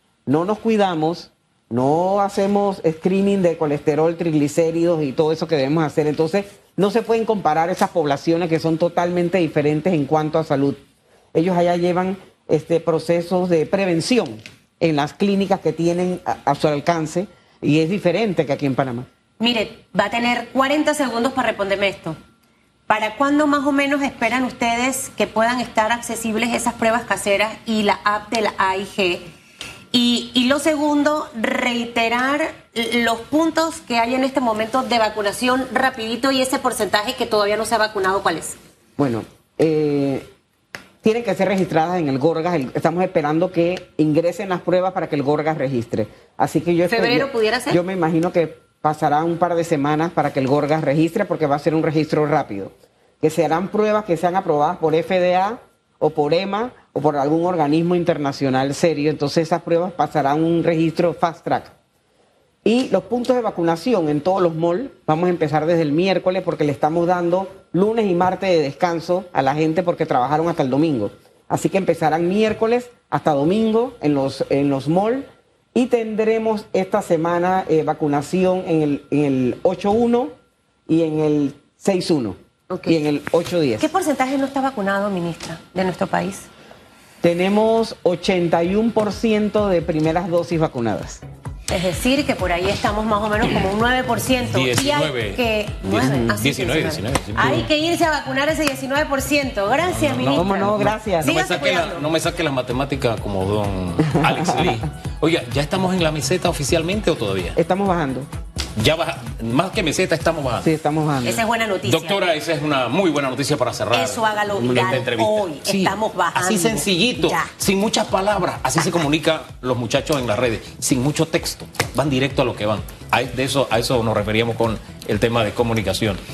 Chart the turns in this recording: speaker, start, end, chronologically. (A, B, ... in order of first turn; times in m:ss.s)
0:00.3-0:10.8 A
0:11.3-0:19.1 A
0:19.4-0:22.2 B
0:22.9-0:29.3 B
0:29.9-0:38.6 B
0:39.0-0:40.3 A
0:41.0-1:01.7 A
0:46.9-0:47.8 B
1:02.6-1:20.3 A
1:20.9-1:23.9 A
1:22.7-1:23.0 B
1:23.8-1:26.5 B
1:27.2-1:31.2 A
1:31.7-1:42.0 B
1:34.4-1:37.7 C
1:39.9-1:47.6 C
1:40.3-1:41.3 A
1:47.6-1:48.3 A
1:48.8-1:50.7 C
1:50.6-1:51.4 A
1:51.2-1:52.2 B
1:51.8-2:06.2 C
1:53.9-1:57.5 B